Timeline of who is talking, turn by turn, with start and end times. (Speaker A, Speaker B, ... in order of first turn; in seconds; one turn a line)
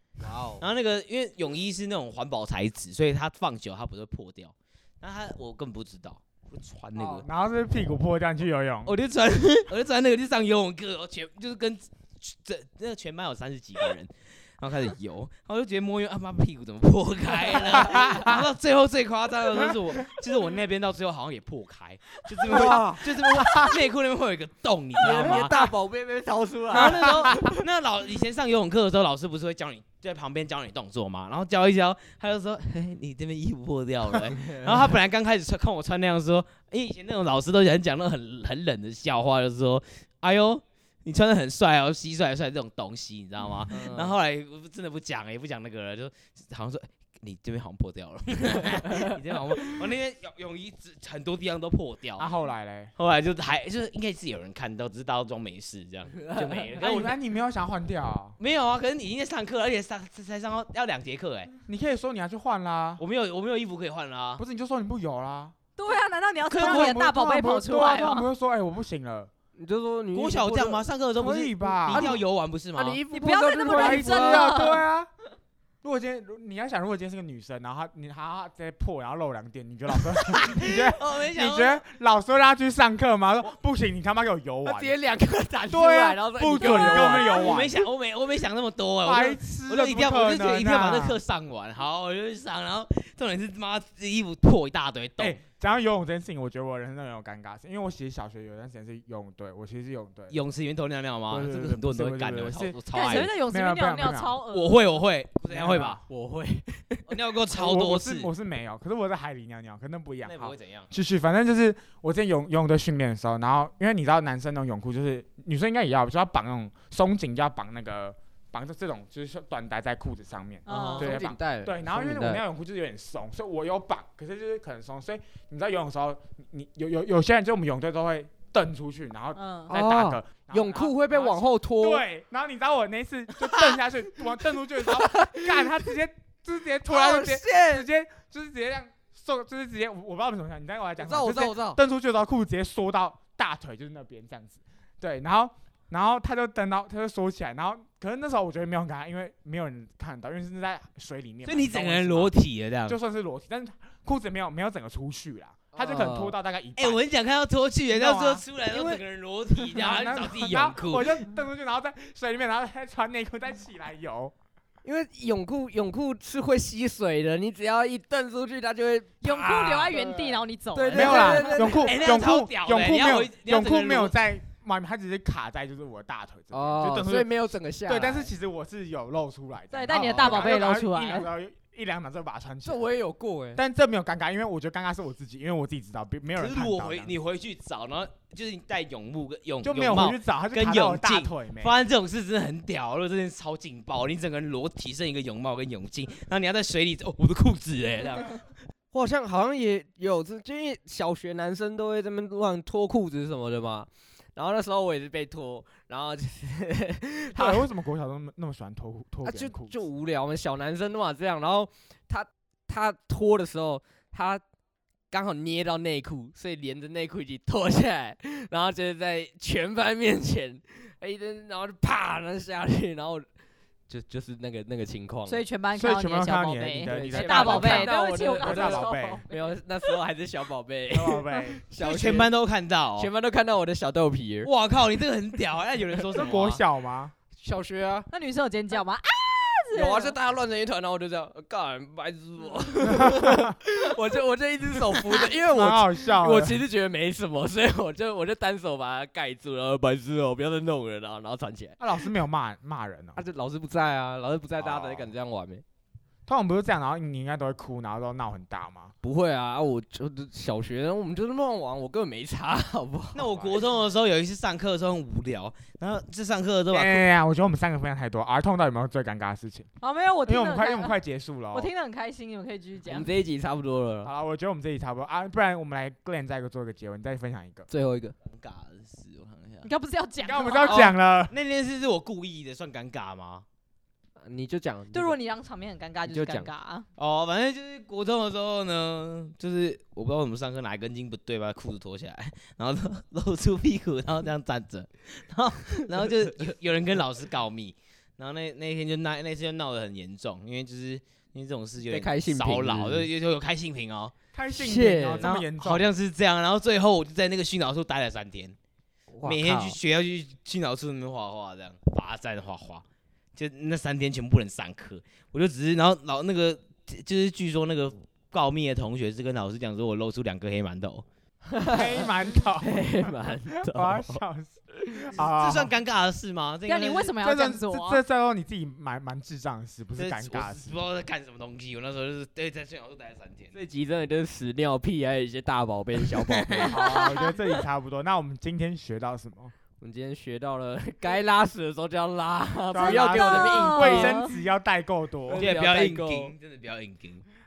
Speaker A: 0.2-0.6
Speaker B: 0.6-7.2
Speaker C: 7.0-8.9
Speaker B: 8.8-25.6
Speaker C: 17.8-18.4
Speaker A: 22.4-23.6
Speaker C: 22.5-23.8
Speaker A: 25.0-27.6
Speaker C: 25.1-25.5
Speaker B: 26.7-52.3
Speaker C: 26.7-27.6
Speaker A: 34.3-34.8
Speaker A: 43.7-44.1
Speaker C: 52.2-52.9
Speaker B: 53.0-57.2
Speaker A: 56.3-56.7
Speaker C: 56.8-58.4
Speaker B: 58.4-61.5
Speaker C: 61.7-63.0
Speaker B: 63.0-64.4
Speaker C: 64.4-65.5
Speaker D: 65.8-68.3
Speaker C: 66.5-69.3
Speaker B: 66.5-67.0
Speaker A: 69.5-72.2
Speaker B: 70.1-73.0
Speaker C: 71.2-72.2
Speaker A: 72.8-74.7
Speaker D: 73.1-74.8
Speaker C: 73.7-75.1
Speaker C: 75.8-84.9
Speaker B: 80.2-81.8
Speaker A: 84.6-87.5
Speaker C: 85.7-87.8
Speaker D: 86.6-87.3
Speaker B: 87.2-95.4
Speaker C: 89.0-91.2
Speaker C: 95.2-100.4
Speaker B: 100.3-103.3
Speaker C: 101.3-104.4
Speaker D: 102.9-105.0
Speaker B: 104.5-106.0
Speaker C: 105.5-106.0
Speaker A: 106.1-107.0
Speaker B: 107.1-108.3
Speaker C: 107.5-152.3
Speaker B: 110.2-110.9
Speaker D: 120.7-121.2
Speaker A: 120.7-122.4
Speaker D: 129.3-129.7
Speaker A: 129.7-132.0
Speaker A: 134.9-135.6
Speaker A: 136.9-137.9
Speaker A: 141.0-141.8
Speaker B: 151.4-153.0
Speaker C: 152.9-157.0
Speaker A: 155.7-156.3
Speaker B: 156.8-161.2
Speaker C: 157.9-158.9
Speaker C: 159.7-164.3
Speaker A: 164.8-171.9
Speaker D: 169.2-171.8
Speaker C: 170.9-177.3
Speaker B: 171.8-174.2
Speaker A: 176.5-178.3
Speaker C: 177.8-182.8
Speaker D: 179.7-181.3
Speaker A: 182.6-183.6
Speaker C: 183.5-187.1
Speaker B: 186.3-198.5
Speaker C: 189.6-191.8
Speaker A: 198.9-207.6
Speaker C: 207.3-209.8
Speaker A: 209.2-214.4
Speaker A: 215.1-223.3
Speaker A: 223.9-225.4
Speaker D: 225.3-229.5
Speaker C: 225.7-229.2
Speaker A: 226.8-232.3
Speaker C: 230.9-231.6
Speaker B: 231.8-233.1
Speaker A: 233.0-234.5
Speaker B: 234.4-236.6
Speaker C: 236.1-237.1
Speaker A: 237.3-238.1
Speaker D: 238.1-240.2
Speaker A: 239.7-251.8
Speaker C: 242.8-243.5
Speaker C: 245.5-246.6
Speaker C: 251.8-253.2
Speaker A: 253.2-255.6
Speaker B: 254.6-255.1
Speaker C: 256.2-258.9
Speaker A: 259.0-263.5
Speaker B: 263.1-267.0
Speaker C: 266.7-269.7
Speaker D: 269.8-271.0
Speaker C: 270.2-271.7
Speaker D: 271.5-273.1
Speaker A: 272.9-274.1
Speaker C: 274.0-277.7
Speaker A: 277.7-278.1
Speaker B: 278.2-279.7
Speaker D: 279.6-280.9
Speaker C: 280.2-281.3
Speaker A: 280.6-280.9
Speaker B: 281.3-283.4
Speaker A: 284.2-285.1
Speaker D: 284.9-286.9
Speaker A: 286.1-286.5
Speaker B: 287.0-304.1
Speaker A: 301.9-303.1
Speaker C: 304.3-305.9
Speaker A: 304.5-305.3
Speaker B: 305.2-308.6
Speaker A: 309.1-309.8
Speaker B: 309.2-312.8
Speaker B: 313.3-321.1
Speaker A: 321.5-322.0
Speaker C: 321.7-325.7
Speaker A: 322.6-324.2
Speaker B: 325.2-327.1
Speaker D: 326.7-328.0
Speaker C: 327.2-330.7
Speaker B: 329.9-333.6
Speaker A: 333.5-336.8
Speaker B: 336.4-336.7
Speaker C: 336.6-339.5
Speaker D: 336.8-337.4
Speaker A: 339.8-344.2
Speaker C: 342.7-345.5
Speaker D: 342.8-344.3
Speaker A: 345.3-346.3
Speaker B: 345.3-347.2